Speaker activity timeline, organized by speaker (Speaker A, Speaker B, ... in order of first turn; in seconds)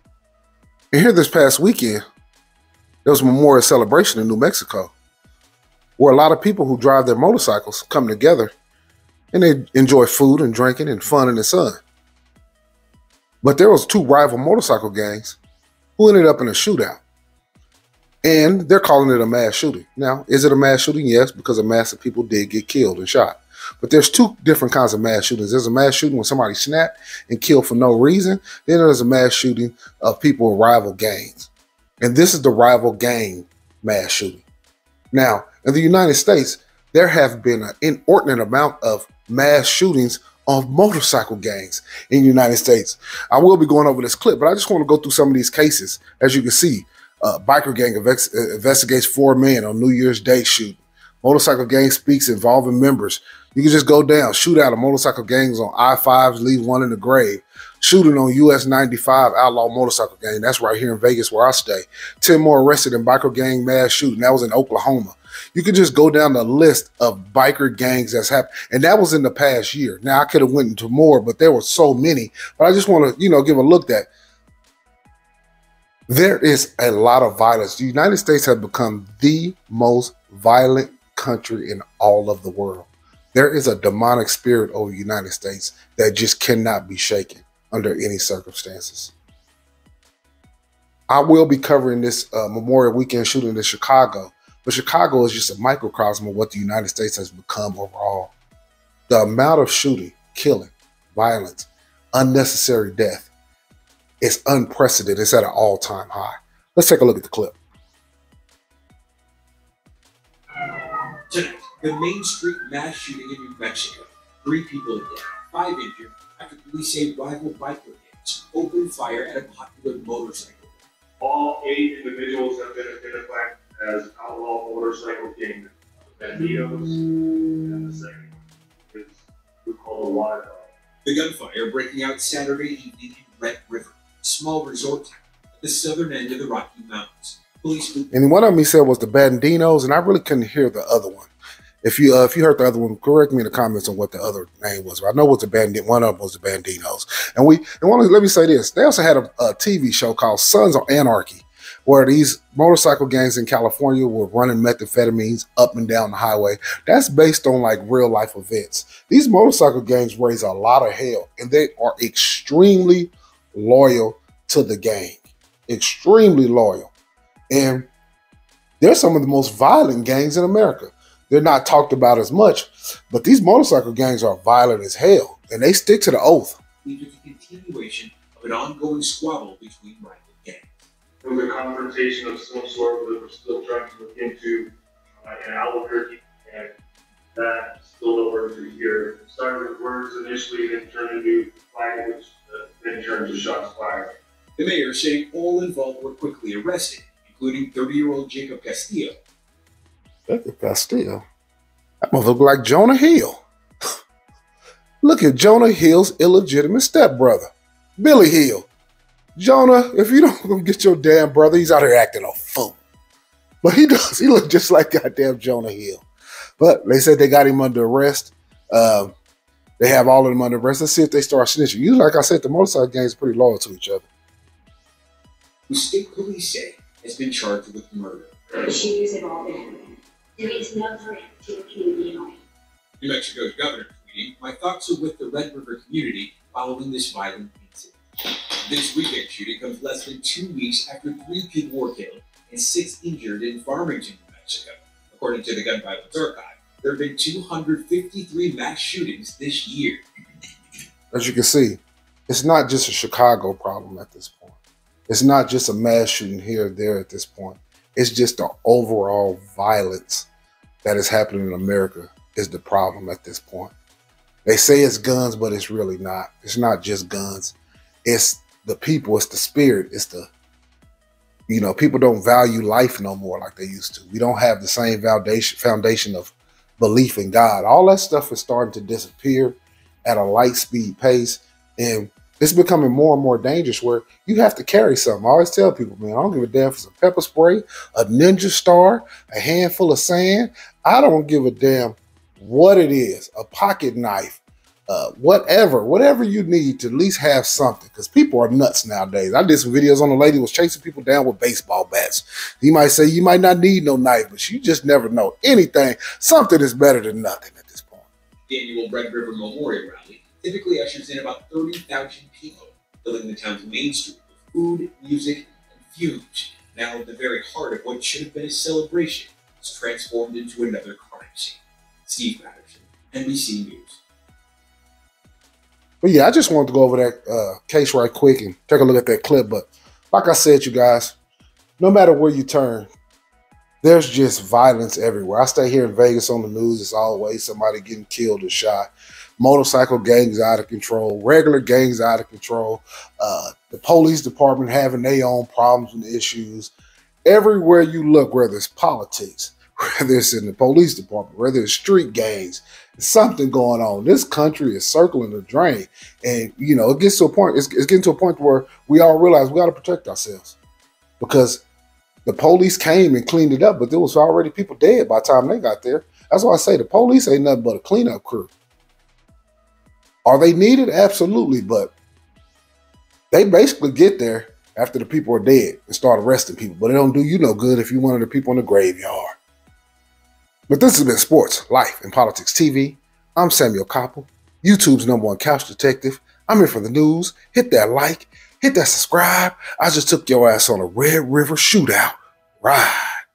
Speaker A: 0.9-2.0, 3.0-4.9, 6.0-8.5, 9.3-11.8, 13.4-15.4, 16.0-17.0, 18.2-31.5, 32.0-34.4, 35.1-74.1, 76.1-89.1, 91.1-98.3, 99.1-103.3, 104.2-107.5, 138.1-141.3, 141.8-166.9, 167.5-167.9, 168.8-176.6, 200.3-201.2, 202.1-203.4, 205.0-208.7, 209.3-212.8, 213.6-216.0, 216.6-219.1, 219.8-224.1, 251.1-254.6, 255.1-260.3, 260.8-263.7, 264.4-270.3, 271.5-308.1, 326.0-331.1, 331.8-332.9, 333.8-338.9, 339.4-346.7, 347.2-360.6, 361.2-361.6, 362.2-368.5, 370.2-371.9, 373.3-379.3, 380.7-393.0
Speaker B: 111.3-120.8, 131.0-138.1, 176.8-180.7, 194.6-199.2, 225.7-228.3, 233.0-250.0, 308.5-324.0
Speaker C: 121.2-130.7, 181.2-186.8, 187.3-194.1
Speaker D: 228.6-232.4